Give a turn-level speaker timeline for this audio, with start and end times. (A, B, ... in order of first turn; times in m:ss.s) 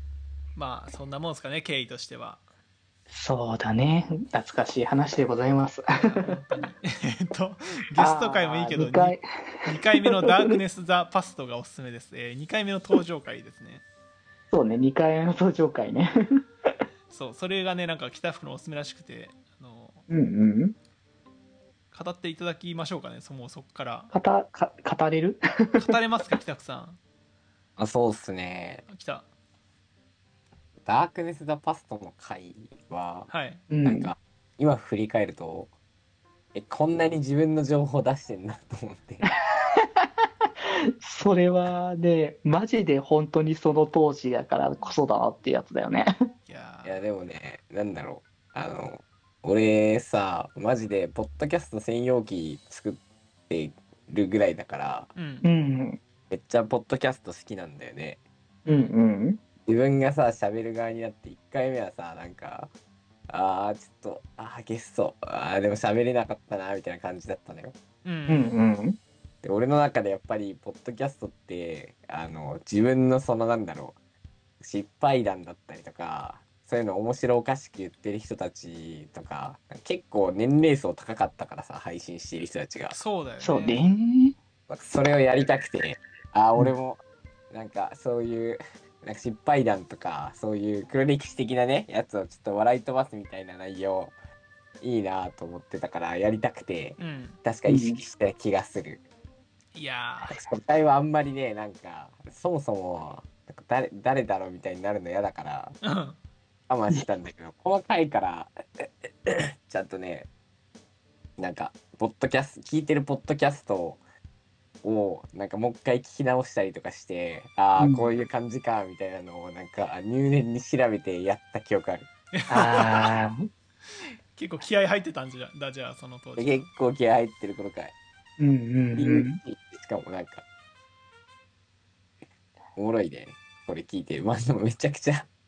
0:00.6-0:02.4 A
0:03.1-0:06.4 B
0:06.0-0:13.8 A
0:08.0-0:09.2 B
0:10.2-0:10.6 B
0:14.5-0:16.1 B
0:17.1-0:20.0 A
0:20.1-0:20.8 B
0:21.9-0:24.1 A
0:24.1-0:25.4 B
0:25.7-0:27.0 A
0:27.8-0:28.8 C
0:28.9-0:29.3 A
0:30.9-0:33.3 C
0:33.3-0:33.6 A
0:33.7-0:34.1 B
0:33.8-0:35.7 C
0:36.5-0:39.2 C
0:41.0-0:46.1 B
0:46.5-0:47.0 A
0:46.8-0:55.1 C
0:55.2-0:55.5 A
0:55.4-0:56.0 B
0:56.3-0:58.2 C
0:58.6-0:58.9 A
0:58.7-0:59.4 B
0:59.7-1:02.7 C
1:03.3-1:07.8 C
1:08.0-1:08.5 A
1:08.3-1:09.0 B
1:09.4-1:14.0 C
1:14.6-1:23.0 C
1:22.9-1:23.8 A
1:23.4-1:24.4 B
1:24.7-1:34.1 C
1:34.8-1:39.0 C
1:37.0-1:37.4 A
1:37.7-1:38.0 B
1:39.7-1:40.4 A
1:40.3-1:45.8 C
1:45.8-1:46.2 A
1:46.7-1:50.3 C
1:51.4-1:54.0 C
1:54.8-2:02.1 C
1:57.8-1:58.2 B
2:02.4-2:03.2 A
2:02.5-2:03.5 B
2:04.4-2:06.7 A
2:06.4-2:07.9 C
2:08.4-2:09.4 B
2:09.0-2:10.4 C
2:12.8-2:15.3 C